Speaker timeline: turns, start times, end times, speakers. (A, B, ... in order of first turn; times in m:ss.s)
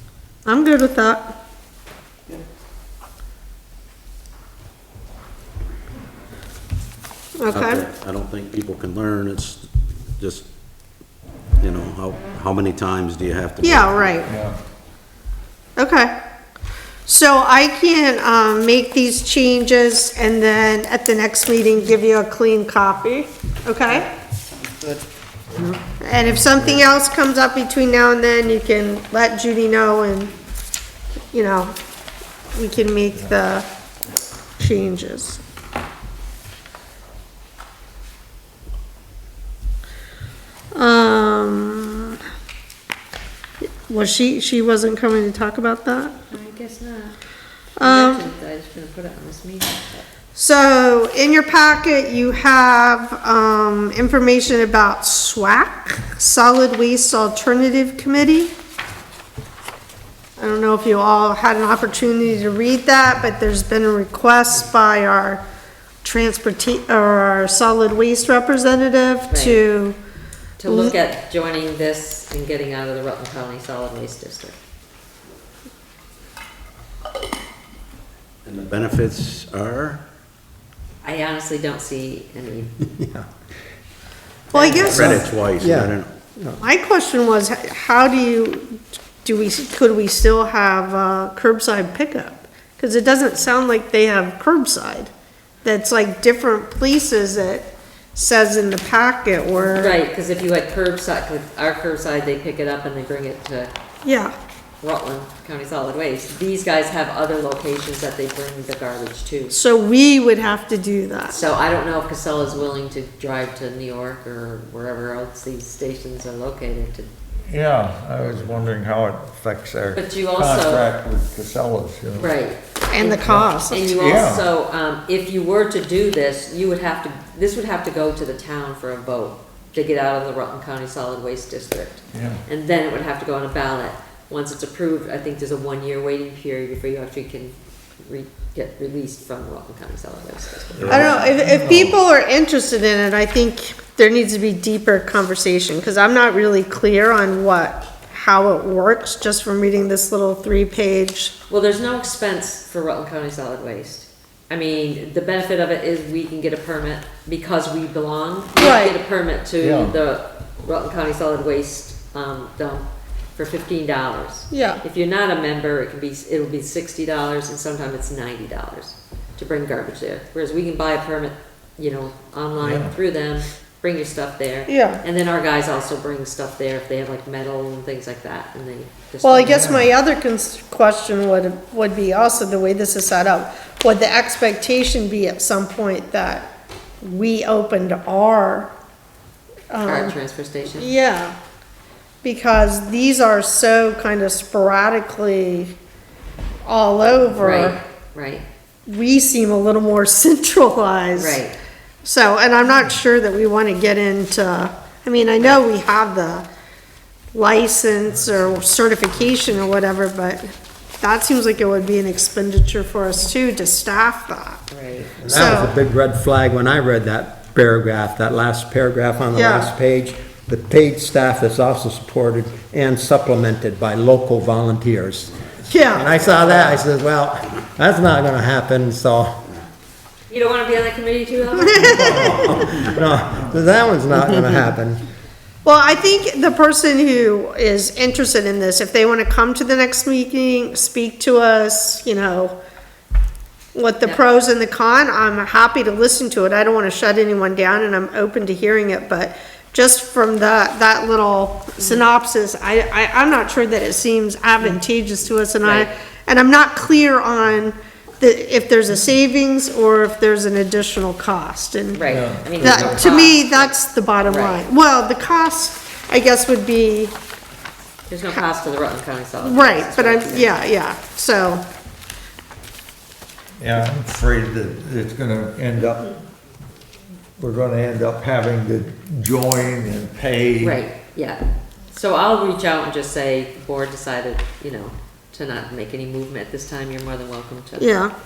0:00.4-0:01.3 A
0:07.4-0:07.8 A
0:07.5-0:09.6 B
0:10.2-0:10.5 B
0:11.6-0:14.3 B
0:13.6-0:14.3 A
0:14.3-0:14.6 C
0:15.8-0:16.1 A
0:17.0-0:24.1 A
0:25.8-0:30.3 A
0:31.3-0:31.7 A
0:32.6-0:33.7 A
0:34.6-0:35.4 A
0:40.7-0:42.2 A
0:43.8-0:46.2 A
0:46.3-0:47.2 D
0:47.8-0:48.3 A
0:47.8-0:50.1 D
0:50.3-0:58.5 A
1:00.4-1:05.4 A
1:06.0-1:10.0 A
1:09.3-1:09.6 D
1:10.6-1:14.6 D
1:10.6-1:11.0 A
1:18.4-1:20.0 B
1:21.0-1:22.8 D
1:23.0-1:23.2 E
1:24.5-1:24.9 D
1:24.5-1:25.3 A
1:24.7-1:26.6 E
1:24.8-1:26.2 B
1:26.6-1:35.1 A
1:35.6-1:40.0 A
1:39.7-1:43.7 D
1:44.0-1:44.3 A
1:44.8-1:49.6 D
1:49.5-1:51.4 A
1:51.3-1:57.1 D
1:57.5-2:02.3 C
1:59.9-2:00.9 D
2:02.2-2:21.2 D
2:02.9-2:04.0 A
2:03.3-2:04.4 C
2:12.1-2:12.4 C
2:20.8-2:22.0 C
2:20.9-2:31.3 A
2:31.5-2:59.7 D
2:38.6-2:39.0 A
2:39.6-2:40.0 C
2:44.5-2:44.8 A
2:52.6-2:53.0 C
2:54.7-2:55.0 A
2:59.2-3:06.5 A
2:59.4-2:59.9 C
3:07.0-3:08.7 A
3:09.7-3:10.2 A
3:09.8-3:10.9 D
3:10.8-3:11.4 A
3:12.2-3:15.7 A
3:16.6-3:17.8 A
3:17.4-3:18.5 D
3:18.9-3:21.4 A
3:21.2-3:21.6 D
3:22.0-3:26.4 A
3:27.3-3:30.5 A
3:31.0-3:34.6 A
3:34.7-3:35.2 D
3:35.2-3:49.4 E
3:35.2-3:35.7 A
3:39.3-3:39.7 A
3:45.7-3:46.2 A
3:50.3-3:52.6 D
3:51.8-3:52.8 A
3:51.8-3:53.8 C
3:52.3-3:55.0 E
3:55.6-4:02.6 A
4:03.7-4:22.0 A
4:15.6-4:15.9 D
4:21.9-4:24.7 D
4:22.0-4:23.2 C
4:22.6-4:27.1 A
4:28.1-4:30.6 D
4:29.4-4:31.6 A
4:33.6-4:36.1 C
4:37.4-4:40.8 C
4:40.6-4:47.9 D
4:47.8-4:48.1 A